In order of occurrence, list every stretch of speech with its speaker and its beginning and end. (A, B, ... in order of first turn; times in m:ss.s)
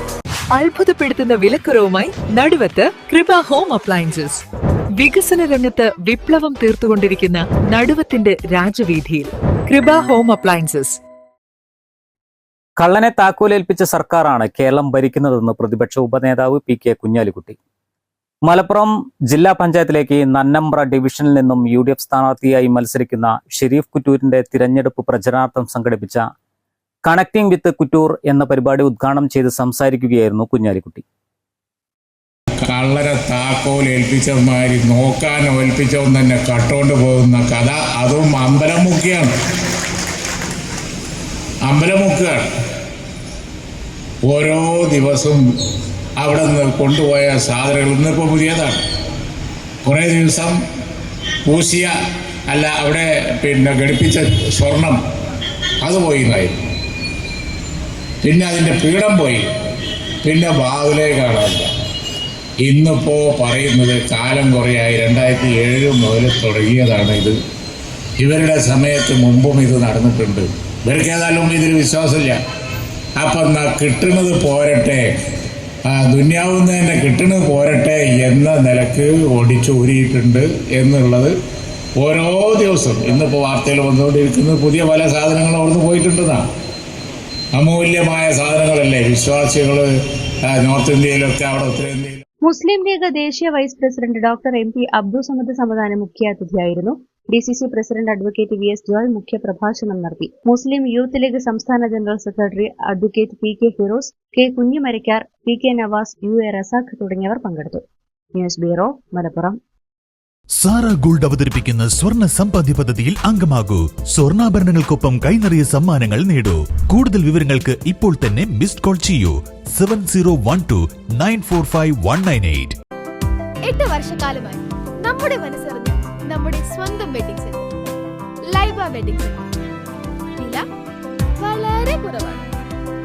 0:00.5-0:04.4 A
0:05.0-0:11.0 A
0:12.8-0:17.6 B
0:18.4-0:26.2 B
0:27.0-0:31.0 B
0:32.6-0:39.3 C
0:41.6-0:42.4 C
0:44.2-0:45.4 C
0:46.2-0:48.8 C
0:49.8-0:50.6 C
0:51.4-0:51.9 C
0:52.5-0:55.0 C
0:55.8-0:56.6 C
0:58.2-0:59.4 C
1:00.2-1:01.7 C
1:02.6-1:07.4 C
1:08.2-1:12.4 C
1:13.2-1:15.1 C
1:15.8-1:21.3 C
1:22.0-1:26.4 C
1:27.5-1:29.9 C
1:30.4-1:32.2 C
1:32.4-1:47.8 D
1:48.3-1:49.6 D
1:50.6-2:02.7 E
2:03.6-2:07.7 F
2:08.5-2:09.5 F
2:10.4-2:10.6 F
2:11.4-2:12.5 F